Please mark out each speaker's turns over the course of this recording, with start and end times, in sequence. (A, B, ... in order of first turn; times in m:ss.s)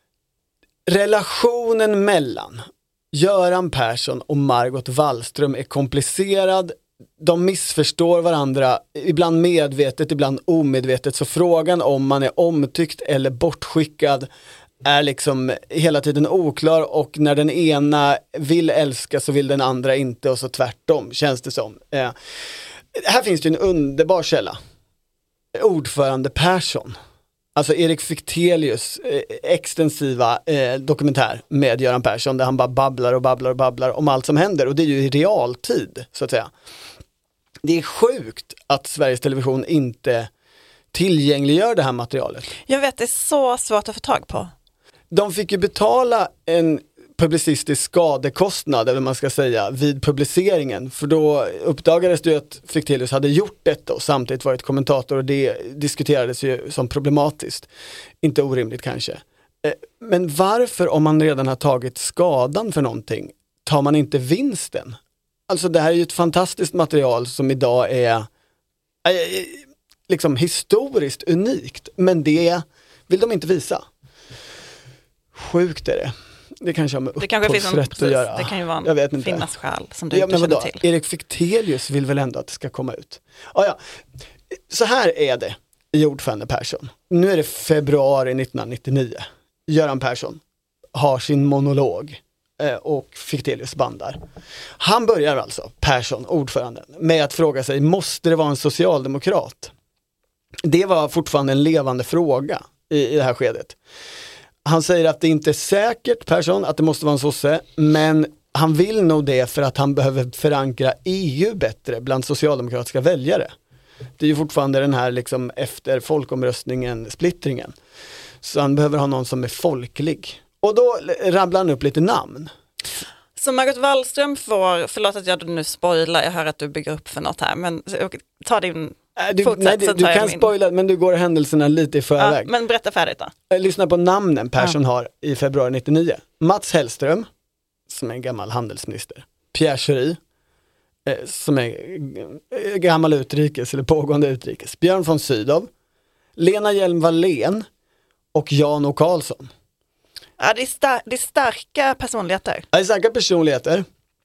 0:00.9-0:14.3 A
0:14.8-0:22.2 A
0:22.9-0:24.6 A
0:25.6-0:27.0 A
0:27.6-0:36.5 A
0:37.6-0:40.3 A
0:40.9-0:42.5 A
0:42.7-0:44.5 B
0:45.1-0:57.7 A
0:58.2-1:08.3 A
1:09.0-1:13.9 A
1:15.4-1:19.5 A
1:17.2-1:20.8 B
1:20.1-1:23.8 A
1:24.7-1:30.4 A
1:31.0-1:34.2 A
1:34.8-1:39.7 A
1:40.6-1:43.8 A
1:44.6-1:53.5 A
1:54.2-1:57.7 A
1:58.4-2:02.5 A
2:03.4-2:10.5 B
2:09.2-2:12.5 A
2:12.2-2:13.3 B
2:13.5-2:17.3 A
2:17.9-2:20.2 A
2:21.1-2:25.7 A
2:26.4-2:27.7 A
2:28.3-2:29.5 A
2:30.4-2:32.7 B
2:32.7-2:33.9 A